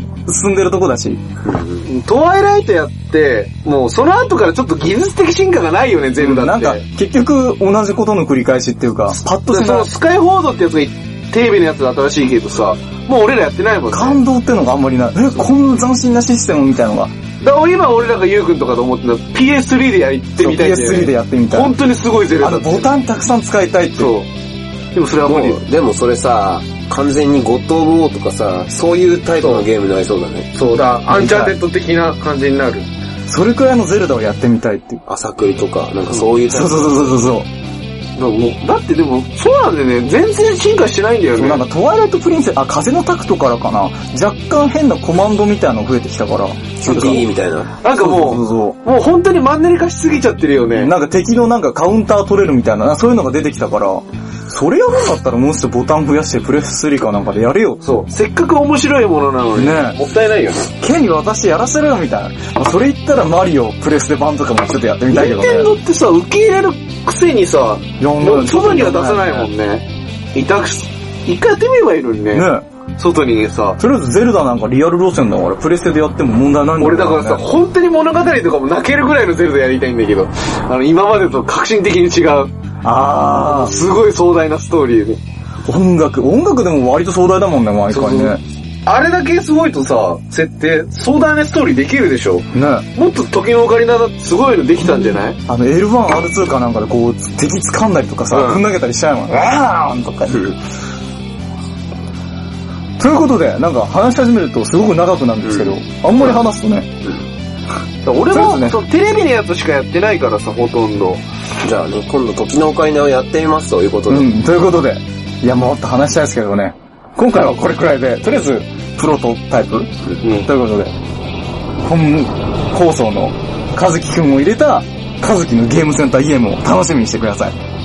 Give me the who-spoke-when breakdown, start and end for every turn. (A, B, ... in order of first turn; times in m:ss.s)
0:00.3-0:01.2 A
0:01.4-0:01.8 B
0:01.8-0:06.8 C
0:06.2-0:09.9 A
0:09.5-0:14.2 C
0:13.9-0:17.1 A
0:17.4-0:22.9 C
0:20.4-0:21.8 A
0:22.4-0:24.1 A
0:24.0-0:24.3 C
0:25.0-0:25.6 C
0:25.2-0:30.5 B
0:30.5-0:32.9 C
0:31.1-0:31.6 A
0:33.3-0:35.0 A
0:35.1-0:37.1 B
0:36.4-0:37.5 A
0:38.2-0:41.6 C
0:41.3-0:47.3 A
0:46.8-0:47.8 B
0:46.9-0:47.2 C
0:47.8-0:50.9 C
0:47.9-0:48.8 A
0:50.7-0:57.8 A
0:57.8-1:00.7 C
0:59.5-1:00.0 A
1:00.8-1:05.8 A
1:05.1-1:13.8 C
1:08.0-1:09.5 A
1:12.3-1:12.7 A
1:13.8-1:17.4 A
1:16.8-1:22.5 C
1:22.8-1:23.9 A
1:23.4-1:25.2 C
1:25.7-1:28.4 A
1:27.9-1:35.4 C
1:32.5-1:32.9 A
1:34.8-1:40.6 A
1:38.3-1:38.6 C
1:43.0-1:46.9 A
1:45.4-1:45.8 B
1:48.0-1:51.2 C
1:48.3-1:48.8 A
1:51.6-1:54.3 B
1:54.1-2:00.9 A
2:00.2-2:00.5 C
2:01.8-2:07.6 A